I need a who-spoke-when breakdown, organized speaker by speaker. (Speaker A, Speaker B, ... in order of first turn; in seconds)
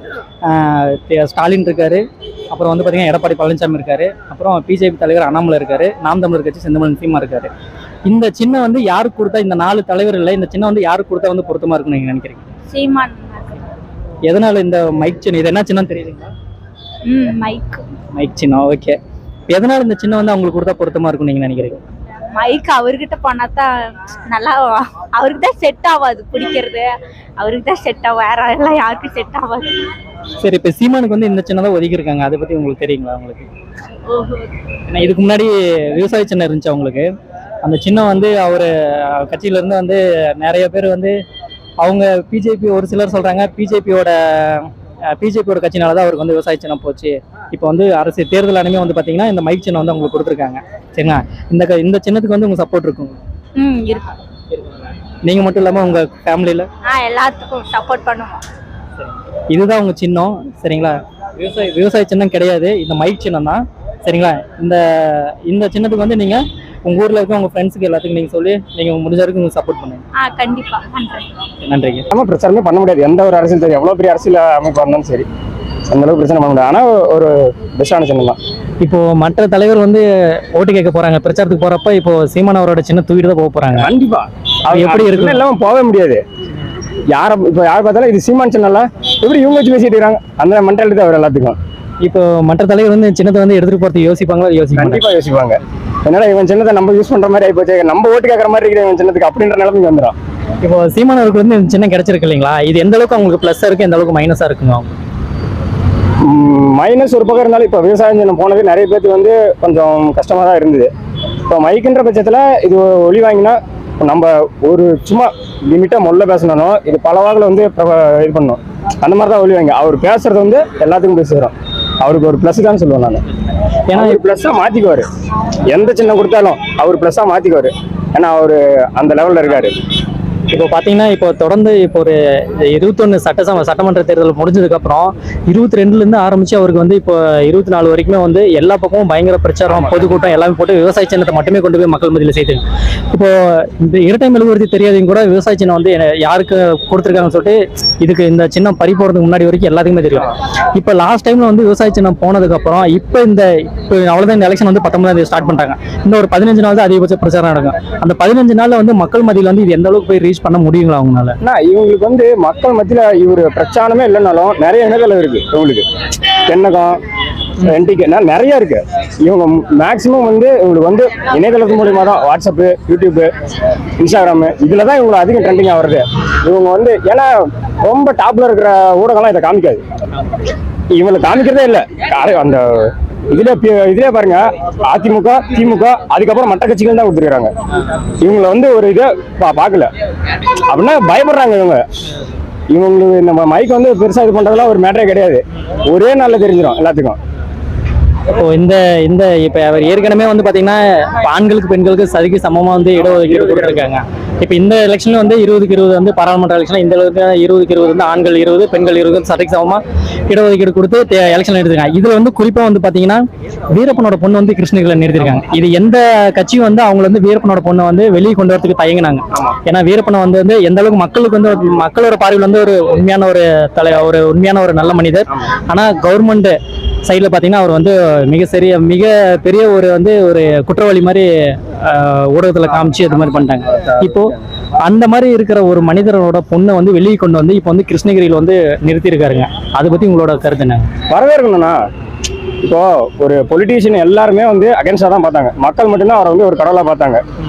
Speaker A: 0.4-7.5, 8.1-12.5, 14.3-16.3, 18.1-19.0, 19.5-21.8, 30.4-33.5, 34.9-37.1, 37.6-41.1, 41.8-53.2, 54.5-56.7, 59.0-70.0, 71.6-72.0, 78.8-83.9, 84.7-85.4, 92.0-95.0, 100.6-104.9, 123.9-124.2, 130.5-161.3, 198.3-240.9
Speaker B: 12.7-13.7, 17.1-17.8, 22.3-23.7, 24.3-29.9, 34.1-34.5, 53.5-54.2, 56.9-58.4, 70.2-71.3
Speaker C: 72.1-75.2, 75.9-78.4, 83.8-86.2, 87.1-91.6, 94.8-100.1, 106.2-110.9, 111.5-123.2, 123.9-125.0, 125.7-129.8, 139.7-140.1, 161.4-167.0, 167.6-173.3, 174.0-179.8, 180.9-187.5, 188.2-189.9, 190.7-191.8, 192.7-197.2, 203.3-203.7, 241.1-241.8, 242.6-247.2